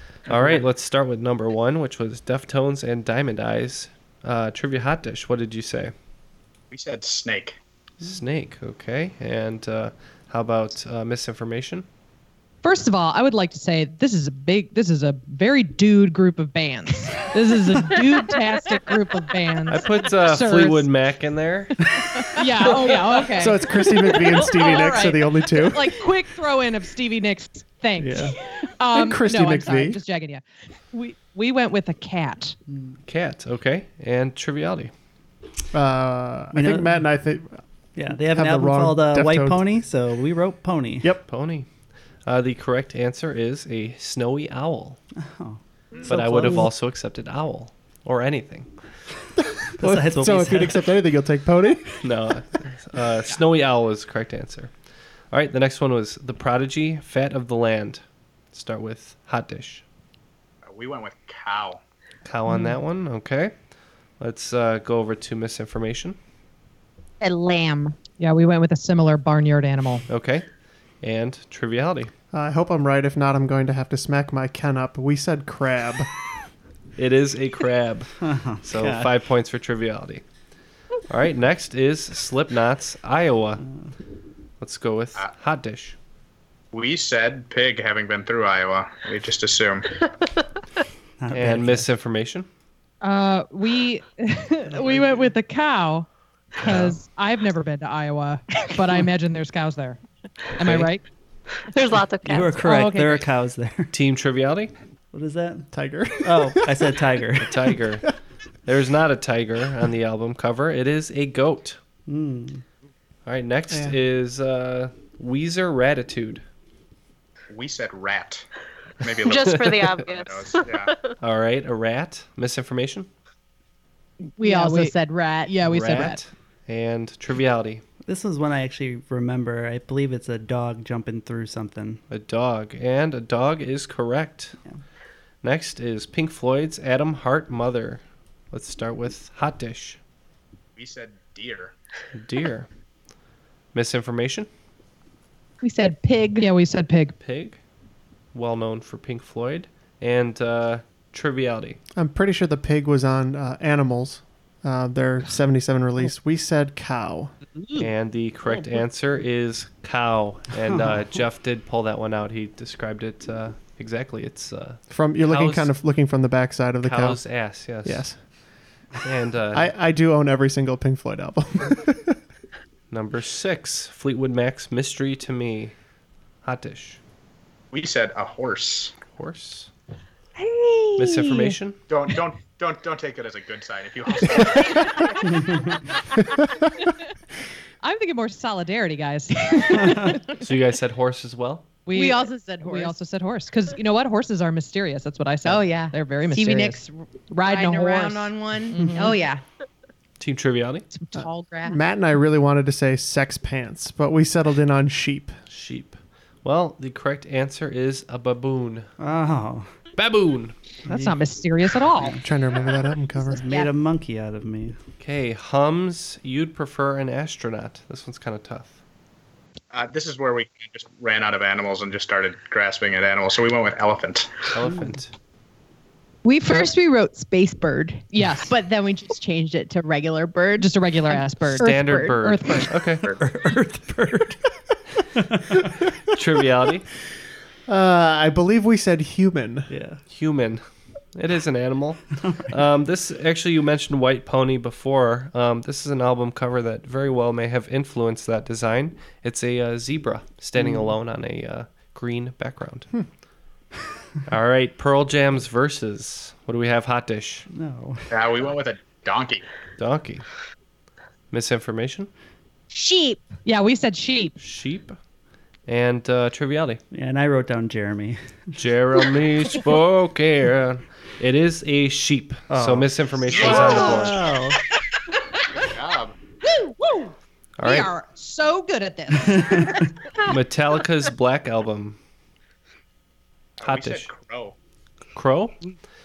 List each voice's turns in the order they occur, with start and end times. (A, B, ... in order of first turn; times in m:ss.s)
0:00.3-0:05.9 A
0:00.3-0:00.6 B
0:06.7-0:07.6 C
0:08.0-0:11.8 A
0:12.6-0:20.9 D
0:19.7-0:21.8 A
0:22.3-0:32.6 D
0:23.3-0:25.9 E
0:28.0-0:28.4 B
0:28.9-0:30.0 E
0:32.7-0:33.0 B
0:33.1-0:34.9 A
0:35.7-0:37.6 E
0:36.5-0:37.0 B
0:38.0-0:41.1 B
0:38.3-0:39.6 E
0:41.3-0:41.7 A
0:42.2-0:45.0 A
0:45.2-0:46.7 B
0:46.0-0:48.7 A
0:49.8-0:50.8 B
0:49.8-0:52.0 E
0:52.0-0:54.7 A
0:55.3-0:59.8 A
1:00.6-1:01.8 C
1:02.2-1:03.5 A
1:04.2-1:06.2 A
1:07.2-1:08.0 F
1:08.2-1:10.0 D
1:10.1-1:10.4 A
1:11.0-1:12.1 A
1:12.3-1:16.1 E
1:17.0-1:18.1 A
1:18.2-1:19.1 B
1:18.6-1:20.2 A
1:21.1-1:23.6 A
1:23.6-1:23.9 B
1:24.6-1:26.0 A
1:26.7-1:29.9 C
1:31.2-1:31.9 B
1:31.3-1:32.5 A
1:33.0-1:36.1 D
1:36.6-1:40.0 D
1:36.6-1:37.0 A
1:40.6-1:41.0 D
1:40.6-1:40.9 A
1:41.7-1:42.6 G
1:42.2-1:43.9 B
1:42.6-1:43.2 D
1:43.9-1:44.7 A
1:45.1-1:45.7 B
1:45.7-1:46.6 E
1:46.2-1:47.6 B
1:47.4-1:48.0 A
1:48.6-1:51.8 A
1:52.1-1:52.6 B
1:53.2-1:56.4 A
1:57.5-1:58.4 C
1:59.0-2:00.9 C
1:59.2-2:01.1 G
1:59.3-1:59.9 A
2:01.2-2:03.1 A
2:04.4-2:05.6 F
2:04.4-2:04.9 D
2:05.5-2:06.2 D
2:05.6-2:07.8 A
2:08.0-2:12.0 B
2:12.1-2:14.6 A
2:15.4-2:20.0 A
2:20.8-2:21.7 C
2:22.1-2:22.7 A
2:23.7-2:24.5 A
2:25.6-2:26.5 F
2:26.4-2:27.2 D
2:27.2-2:27.6 A
2:28.3-2:31.8 A
2:32.0-2:37.3 E
2:37.8-2:45.7 A
2:40.7-2:41.0 B
2:44.9-2:48.2 E
2:46.8-2:48.2 A
2:49.0-2:49.7 A
2:49.5-2:52.2 E
2:52.9-2:55.7 A
2:56.4-2:57.0 A
2:57.7-2:59.0 C
2:59.1-2:59.7 A
3:00.4-3:01.4 F
3:01.0-3:01.8 A
3:01.9-3:05.1 C
3:07.8-3:10.2 D
3:10.4-3:11.7 A
3:11.8-3:19.2 D
3:11.9-3:12.9 F
3:15.4-3:19.4 F
3:20.2-3:20.9 A
3:21.1-3:21.8 F
3:21.7-3:25.4 E
3:25.5-3:28.9 A
3:29.0-3:29.7 B
3:30.0-3:30.5 A
3:30.8-3:31.2 B
3:30.9-3:32.2 D
3:32.2-3:33.4 E
3:33.2-3:33.7 F
3:33.3-3:34.8 B
3:35.0-3:38.8 A
3:39.7-3:44.4 C
3:44.5-3:45.1 A
3:44.6-3:44.9 B
3:46.2-3:52.2 F
3:48.1-3:48.5 D
3:50.6-3:52.7 D
3:51.6-3:53.1 A
3:53.2-3:54.4 B
3:55.1-3:55.6 B
3:56.1-3:56.9 A
3:57.7-3:59.7 E
3:59.7-4:00.0 B
4:00.1-4:00.6 A
4:01.1-4:12.9 A
4:02.2-4:02.5 B
4:10.6-4:10.9 B
4:14.3-4:17.4 A
4:17.5-4:18.0 B
4:18.1-4:19.4 C
4:19.8-4:20.2 A
4:21.3-4:22.1 A
4:22.7-4:23.3 F
4:23.4-4:24.3 D
4:24.4-4:25.0 A
4:25.7-4:26.8 A
4:26.9-4:28.5 B
4:28.6-4:34.2 A
4:32.5-4:34.6 B
4:35.6-4:36.1 C
4:36.8-4:37.1 D
4:37.6-4:37.9 A
4:37.6-4:39.8 D
4:39.3-4:39.8 B
4:40.2-4:42.0 A
4:43.6-4:44.6 C
4:43.6-4:44.1 A
4:45.1-4:45.7 A